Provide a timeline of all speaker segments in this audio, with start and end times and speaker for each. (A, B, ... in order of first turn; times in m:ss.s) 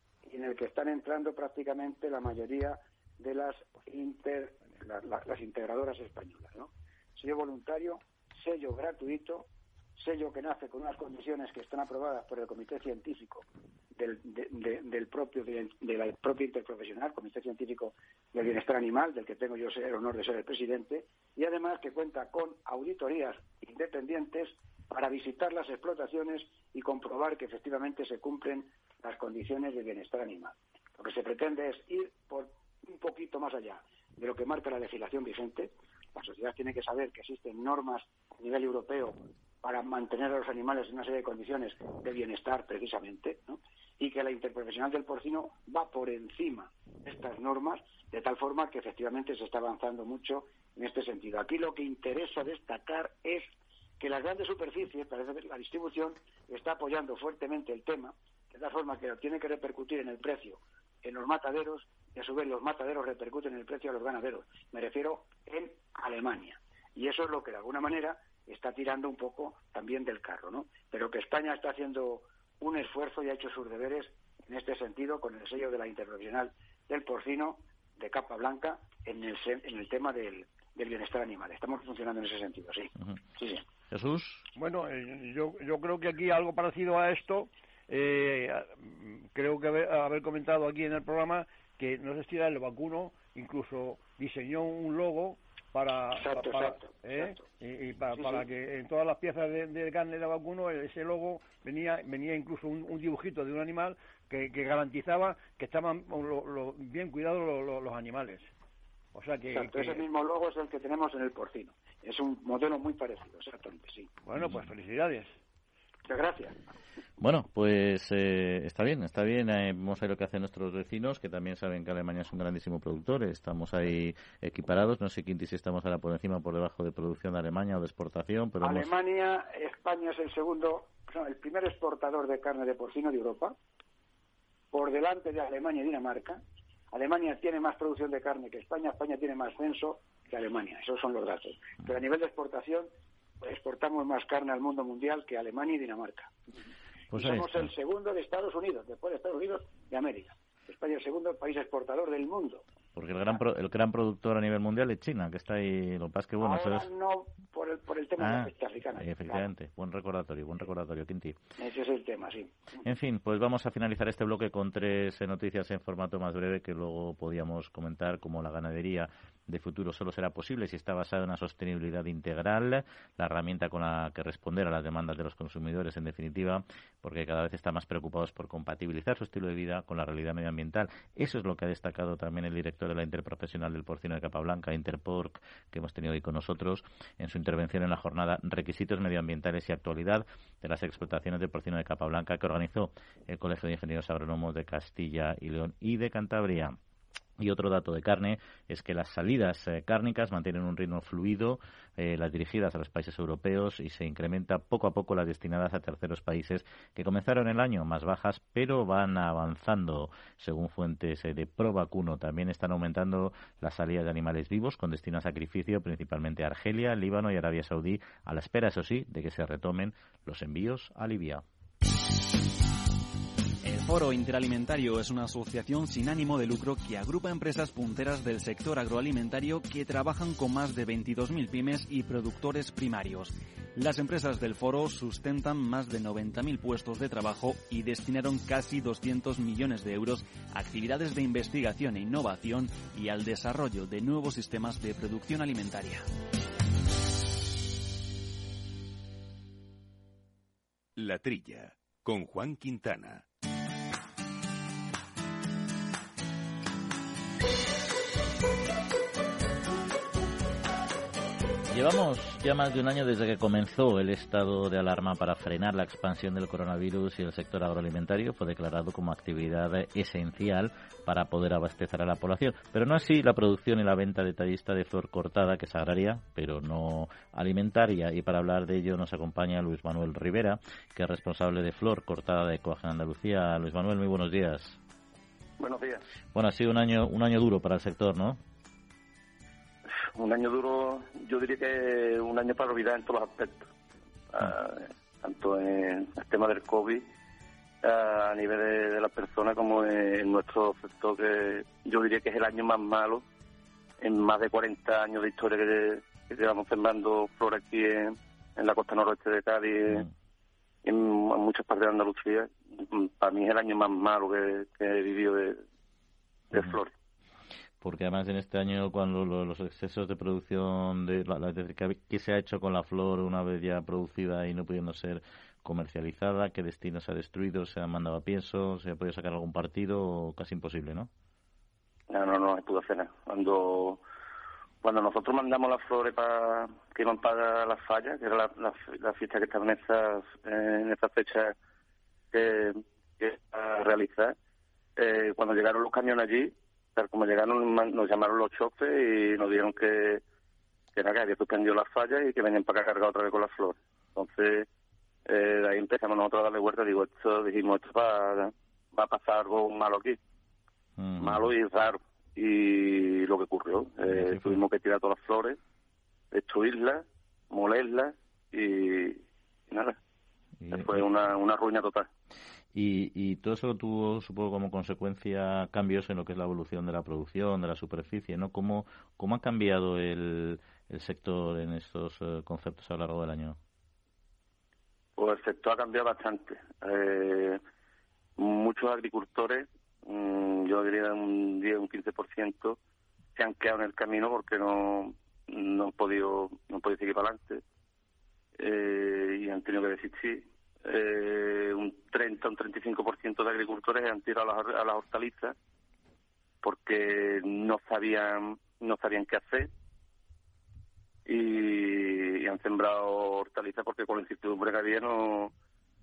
0:00.2-1:23.6 A
1:23.9-1:24.5 B
1:24.6-1:48.5 C
1:36.2-1:37.5 A
1:38.2-1:38.4 A
1:49.1-1:50.0 C
1:49.5-1:54.1 A
1:54.3-1:55.3 C
1:56.1-1:56.6 A
1:57.2-2:08.9 B
2:08.6-2:13.6 A
2:14.7-2:16.4 A
2:16.9-2:22.9 A
2:23.4-2:26.3 A
2:27.1-2:27.7 B
2:27.2-2:32.6 A
2:33.0-2:36.9 B
2:36.4-2:39.5 A
2:38.2-2:41.4 B
2:41.6-2:42.5 A
2:42.8-3:16.8 B
3:17.4-3:41.4 B
3:43.6-4:06.1 D
4:11.0-4:13.3 E
4:21.7-4:44.8 B
4:45.6-4:46.0 F
4:46.3-4:48.4 B
4:50.1-4:53.7 F
4:54.3-4:57.1 F
4:57.8-5:03.2 F
5:04.0-5:10.0 F
5:10.8-5:15.6 F
5:16.5-5:16.9 F
5:17.8-5:31.1 B
5:32.1-5:34.0 F
5:34.8-5:41.5 F
5:42.3-5:44.4 F
5:45.0-5:50.2 F
5:51.0-5:54.7 F
5:55.3-6:00.2 F
6:01.0-6:01.5 B
6:01.2-6:05.6 F
6:04.0-6:04.6 B
6:06.3-6:10.0 F
6:10.6-6:11.0 B
6:10.7-6:12.1 F
6:12.7-6:23.6 B
6:25.2-6:27.6 F
6:28.4-6:32.8 F
6:33.4-6:37.6 F
6:38.6-6:45.6 F
6:46.6-6:49.7 F
6:51.3-6:55.5 F